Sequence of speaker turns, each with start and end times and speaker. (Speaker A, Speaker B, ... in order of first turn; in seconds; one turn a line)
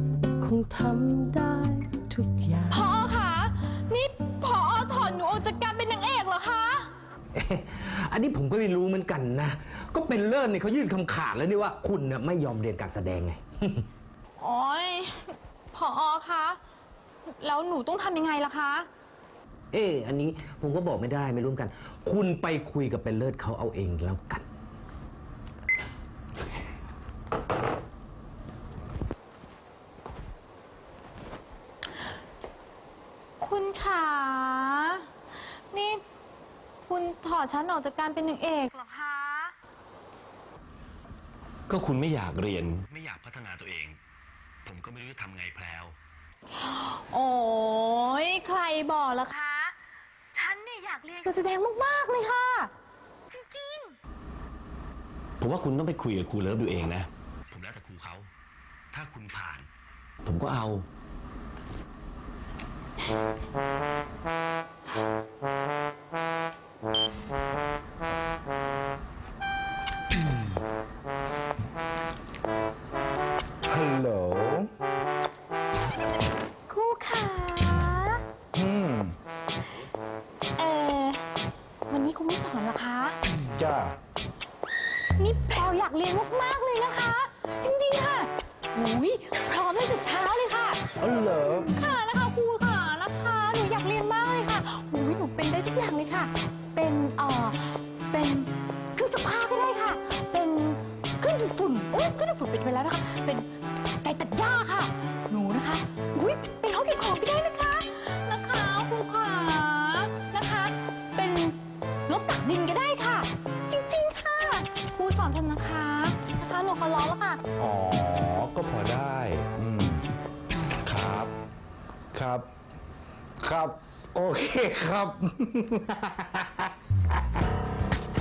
Speaker A: 0.4-2.9
Speaker B: 2.7-6.9
Speaker C: 7.3-13.8
Speaker B: 14.4-16.6
Speaker B: 17.3-18.9
Speaker C: 19.7-24.4
Speaker B: 33.4-35.0
Speaker B: 35.7-36.0
Speaker B: 36.8-39.5
Speaker D: 41.7-44.0
Speaker D: 44.6-46.0
Speaker B: 46.6-49.7
Speaker B: 50.3-52.7
Speaker B: 53.3-53.9
Speaker D: 55.4-58.3
Speaker D: 58.9-59.7
Speaker D: 60.2-60.9
Speaker E: 73.7-74.7
Speaker B: 76.7-78.2
Speaker E: 78.6-79.1
Speaker B: 80.5-81.2
Speaker B: 81.9-83.2
Speaker E: 83.6-83.9
Speaker B: 85.2-90.8
Speaker E: 91.0-91.7
Speaker B: 91.7-117.4
Speaker D: 117.8-119.4
Speaker E: 119.5-120.0
Speaker D: 120.9-121.2
Speaker E: 123.4-125.6